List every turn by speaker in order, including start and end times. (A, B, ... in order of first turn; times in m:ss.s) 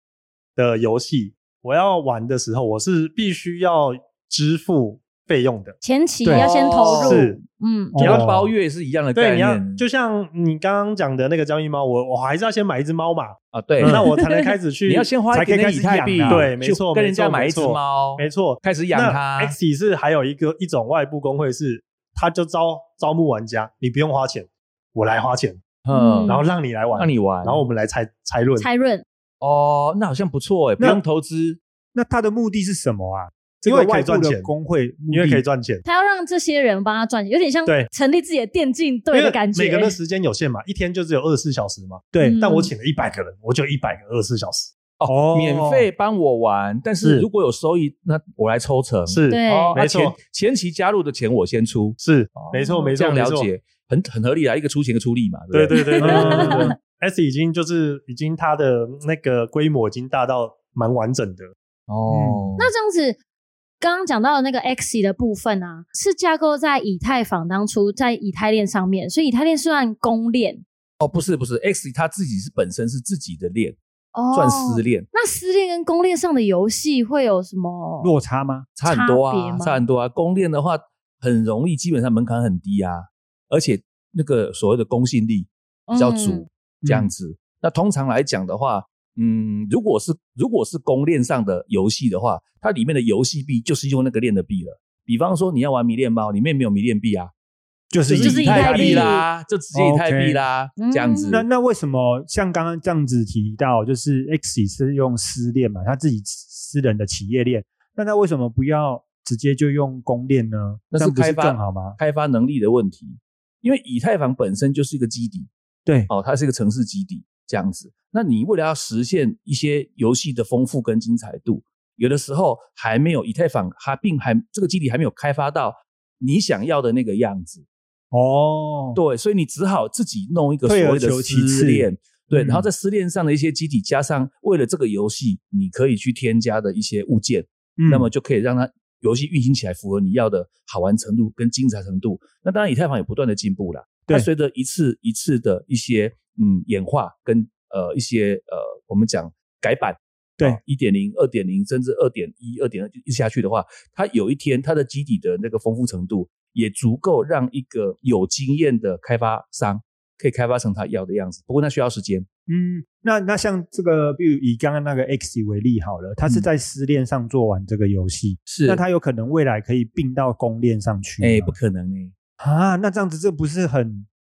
0:00.6-0:05.8 A
0:05.8-0:08.0 B
0:06.2-0:06.5 C
0:06.3-0:07.4 D
0:06.9-0:07.4 A
0:07.9-0:08.5 C
0:08.0-0:09.8 D
0:08.0-0:08.3 A
0:09.1-0:15.1 A
0:13.5-0:14.0 D
0:14.1-0:14.4 B
0:14.8-0:19.6 D
0:15.3-0:16.5 C
0:16.3-0:25.6 A
0:25.8-0:27.6 D
0:25.9-0:26.4 B
0:26.2-0:28.7 A
0:28.6-0:29.0 B
0:29.4-0:31.6 D
0:31.9-0:35.4 C
0:33.6-0:34.5 A
0:35.1-0:35.8 A
0:35.8-0:40.0 B
0:39.1-0:44.7 A
0:42.1-0:42.4 C
0:42.2-0:42.7 B
0:45.0-0:56.6 D
0:45.1-0:45.9 C
0:47.0-0:47.3 A
0:49.1-0:50.2 A
0:49.3-0:49.8 B
0:52.0-0:53.5 A
0:55.5-1:01.5 A
0:55.7-0:56.7 B
0:56.0-0:56.6 C
1:01.9-1:02.7 D
1:02.1-1:02.5 C
1:02.6-1:03.2 B
1:03.8-1:10.6 B
1:11.0-1:13.8 D
1:14.1-1:18.1 B
1:14.3-1:15.1 D
1:18.0-1:18.7 C
1:18.8-1:37.3 D
1:18.8-1:19.8 B
1:25.9-1:26.5 B
1:26.8-1:27.1 C
1:37.9-1:39.1 C
1:38.1-1:41.4 D
1:38.2-1:39.2 B
1:39.7-1:40.4 C
1:40.8-1:41.4 B
1:41.3-1:52.0 C
1:50.9-1:55.5 D
1:56.1-2:07.6 D
2:08.1-2:09.0 C
2:08.9-2:42.2 D
2:10.6-2:12.7 C
2:17.8-2:18.1 C
2:42.5-2:51.6 C
2:48.5-2:48.8 D
2:51.2-2:52.1 D
2:52.4-2:54.1 C